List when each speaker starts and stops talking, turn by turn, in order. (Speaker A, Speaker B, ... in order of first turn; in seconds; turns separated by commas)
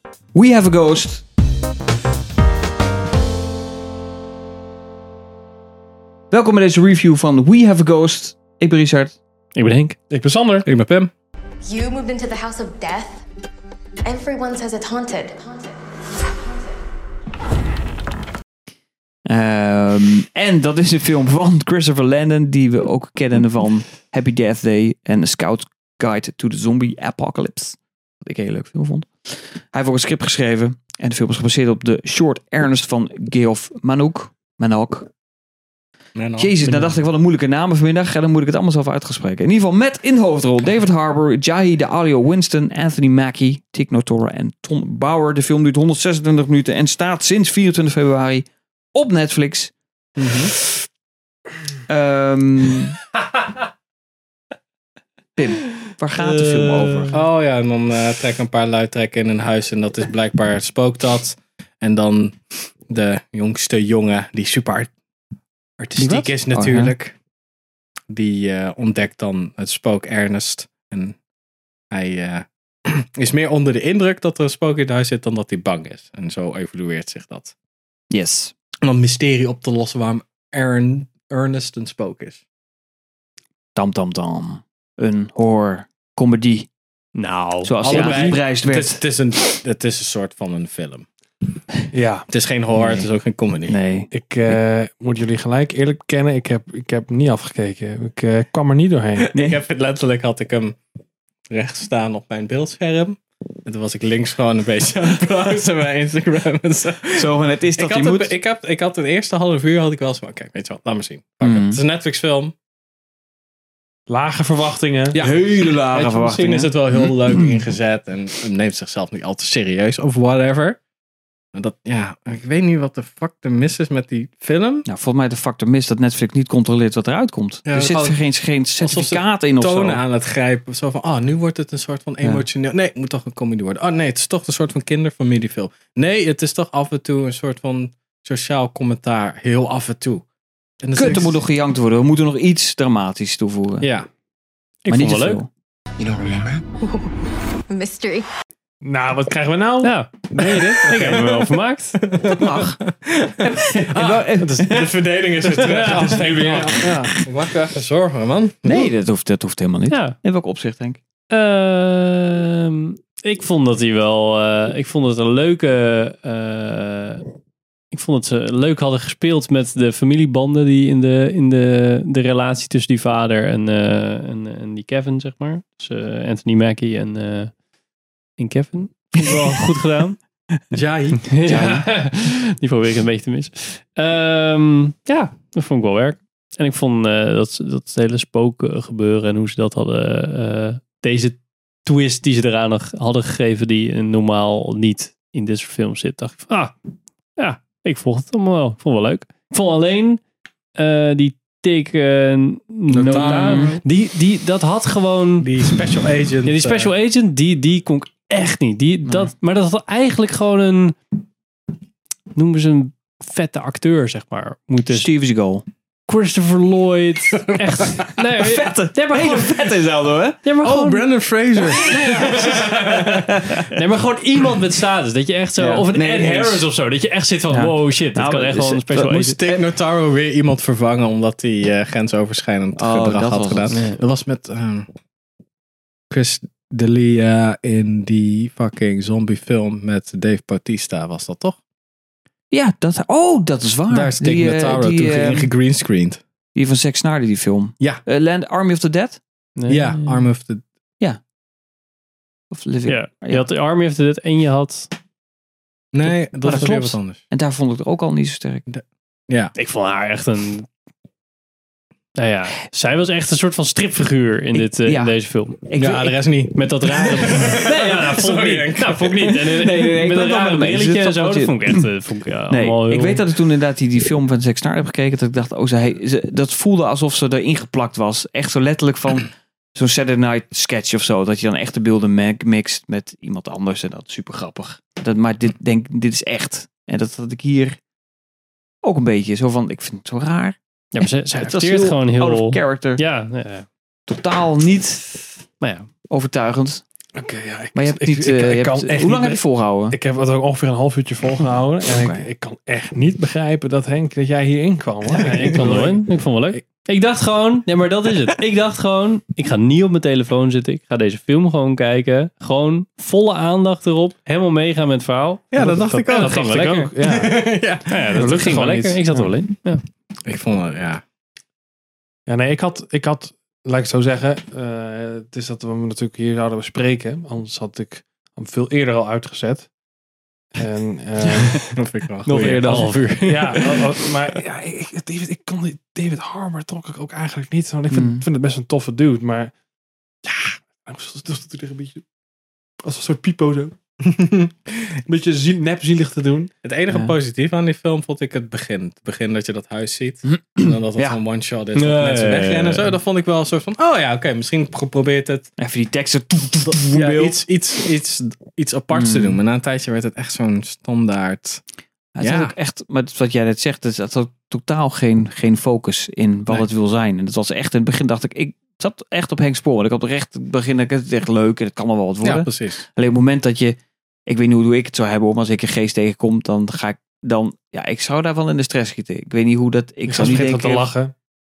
Speaker A: 0.3-1.2, Speaker A: 6.3-9.2, Speaker B: 9.6-10.0, Speaker C: 10.1-10.7, Speaker D: 10.6-11.1, Speaker E: 11.6-13.2, Speaker E: 14.0-16.8, Speaker A: 19.3-35.1, Speaker D: 36.2-36.5, Speaker A: 36.4-49.7, Speaker D: 50.2-50.5, Speaker A: 51.9-53.0, Speaker A: 55.4-57.2, Speaker B: 56.2-57.2, Speaker D: 57.1-62.4, Speaker D: 62.9-64.9, Speaker D: 65.8-67.2, Speaker A: 66.0-66.9, Speaker D: 68.1-71.2, Speaker D: 71.9-77.5, Speaker A: 78.1-78.5, Speaker D: 78.8-82.4, Speaker A: 83.8-86.7, Speaker B: 87.2-88.4, Speaker A: 87.6-89.0, Speaker D: 87.8-91.1, Speaker C: 91.9-92.3, Speaker D: 92.3-93.8, Speaker A: 92.8-93.1, Speaker A: 93.7-94.1, Speaker C: 94.1-99.3, Speaker D: 99.2-100.8, Speaker A: 99.3-99.6, Speaker D: 101.5-112.5, Speaker A: 107.2-108.3, Speaker A: 111.4-111.8, Speaker C: 114.1-115.2, Speaker A: 115.2-117.1, Speaker D: 115.2-120.8, Speaker D: 121.5-124.9, Speaker A: 124.9-130.0, Speaker D: 127.7-128.2, Speaker D: 128.8-140.2, Speaker D: 140.8-141.4, Speaker A: 140.9-143.9, Speaker D: 143.8-144.1, Speaker B: 144.8-145.4, Speaker A: 144.9-145.5, Speaker E: 147.7-148.3, Speaker C: 148.8-151.3, Speaker B: 149.8-152.0, Speaker D: 150.4-151.2, Speaker D: 152.0-158.9, Speaker A: 152.2-152.8, Speaker A: 153.4-154.9, Speaker C: 155.6-157.1, Speaker A: 158.7-161.0, Speaker B: 159.9-160.2, Speaker B: 161.3-167.2, Speaker B: 167.9-177.5, Speaker B: 178.4-180.2, Speaker D: 180.7-181.3, Speaker B: 181.3-196.7, Speaker A: 181.5-181.9, Speaker B: 197.4-200.2, Speaker B: 200.8-205.5, Speaker D: 202.9-203.8, Speaker A: 203.1-203.8, Speaker D: 205.4-206.9, Speaker B: 206.4-211.0, Speaker A: 209.1-209.3, Speaker B: 212.3-215.1, Speaker A: 214.9-215.7, Speaker B: 216.1-219.7, Speaker A: 218.4-220.4, Speaker B: 220.4-221.1, Speaker D: 220.6-223.3, Speaker A: 221.8-223.6, Speaker B: 222.1-222.7, Speaker B: 223.7-229.4, Speaker A: 225.6-226.7, Speaker A: 227.5-229.1, Speaker D: 229.1-234.9, Speaker A: 232.8-233.7, Speaker B: 233.7-234.0, Speaker D: 236.1-241.6, Speaker A: 242.5-245.5, Speaker D: 243.9-246.2, Speaker A: 246.6-249.2, Speaker B: 249.6-250.3, Speaker D: 249.7-250.6, Speaker A: 252.5-253.4, Speaker B: 252.9-254.9, Speaker D: 255.9-257.2, Speaker A: 256.1-258.7, Speaker D: 258.7-259.5, Speaker B: 259.6-260.7, Speaker B: 262.2-265.6, Speaker A: 264.8-266.2, Speaker D: 265.8-269.7, Speaker B: 266.6-273.3, Speaker A: 269.5-271.8, Speaker A: 272.5-287.8, Speaker A: 288.8-290.6, Speaker B: 290.9-293.7, Speaker A: 291.3-293.0, Speaker A: 294.1-295.2, Speaker B: 295.6-295.9, Speaker A: 296.1-296.8, Speaker C: 297.2-306.0, Speaker A: 297.8-300.0, Speaker A: 301.4-302.3, Speaker B: 305.1-316.9, Speaker D: 315.5-316.5, Speaker C: 315.6-317.6, Speaker D: 317.0-318.7, Speaker B: 317.9-319.8, Speaker C: 318.3-319.3, Speaker D: 320.2-321.0, Speaker C: 322.3-329.7, Speaker C: 330.5-331.8, Speaker D: 331.8-332.9, Speaker B: 332.3-333.9, Speaker C: 332.4-339.5, Speaker A: 337.9-338.2, Speaker C: 340.2-342.0, Speaker C: 342.8-343.8, Speaker D: 344.1-344.5, Speaker C: 345.1-346.5, Speaker D: 346.6-355.5, Speaker A: 346.9-347.1, Speaker A: 350.3-351.2, Speaker B: 351.7-352.9, Speaker A: 355.6-357.4, Speaker D: 356.7-361.6, Speaker A: 358.9-359.4, Speaker A: 362.1-373.8, Speaker D: 362.2-362.5, Speaker D: 372.2-372.8, Speaker A: 374.3-380.9, Speaker C: 380.1-381.1